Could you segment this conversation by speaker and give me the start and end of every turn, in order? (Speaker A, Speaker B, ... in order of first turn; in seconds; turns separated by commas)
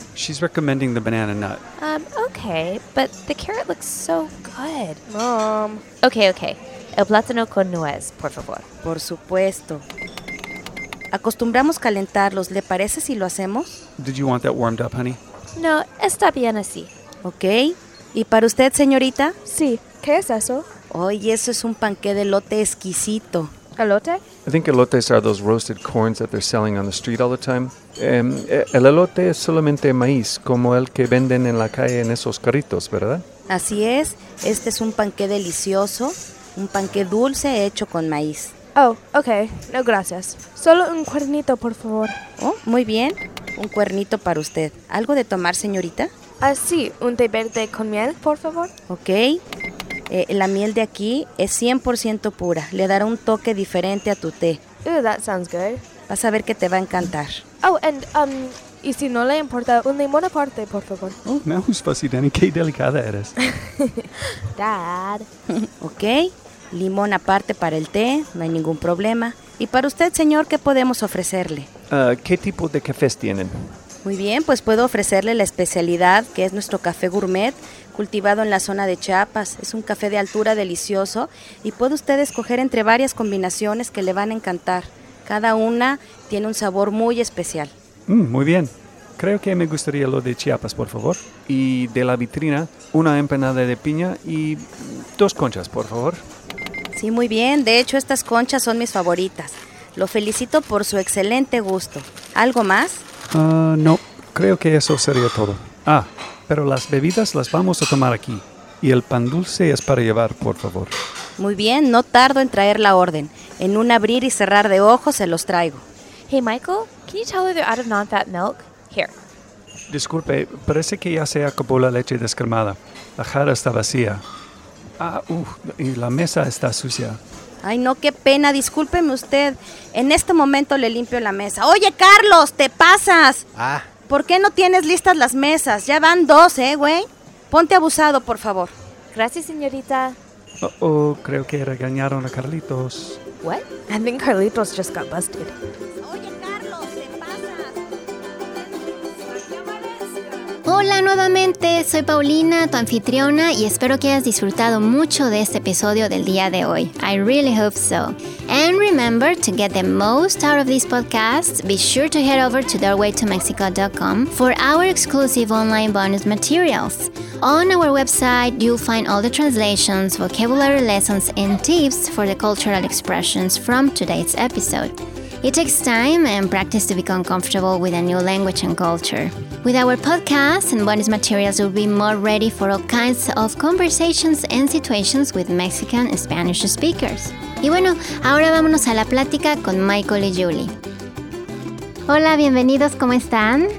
Speaker A: 0.1-1.6, Speaker B: 1.8-5.0, Speaker C: 5.1-5.8, Speaker B: 6.0-8.6, Speaker D: 8.8-9.8, Speaker D: 11.1-13.8, Speaker A: 14.0-15.2, Speaker B: 15.5-16.9, Speaker D: 17.2-19.4, Speaker C: 19.4-20.7, Speaker D: 20.9-23.5, Speaker C: 23.8-24.2, Speaker A: 24.5-33.2, Speaker D: 33.5-38.5, Speaker C: 38.7-42.2, Speaker D: 42.4-46.1, Speaker C: 46.4-48.7, Speaker D: 48.9-49.4, Speaker D: 50.1-54.6, Speaker C: 54.8-55.8, Speaker D: 56.1-57.4, Speaker C: 57.6-61.2, Speaker A: 61.4-63.4, Speaker C: 64.5-65.3, Speaker D: 65.5-71.7, Speaker A: 71.9-73.7, Speaker D: 74.0-87.7, Speaker A: 88.1-96.2, Speaker D: 96.9-103.0, Speaker A: 103.3-110.9, Speaker D: 111.4-115.8, Speaker B: 116.3-119.1, Speaker A: 119.9-124.2, Speaker A: 125.0-127.2, Speaker D: 127.6-133.4, Speaker D: 134.1-138.7, Speaker B: 139.1-140.2, Speaker A: 140.6-143.2, Speaker B: 143.4-143.8, Speaker D: 146.0-147.7, Speaker E: 150.6-190.7, Speaker E: 192.1-193.7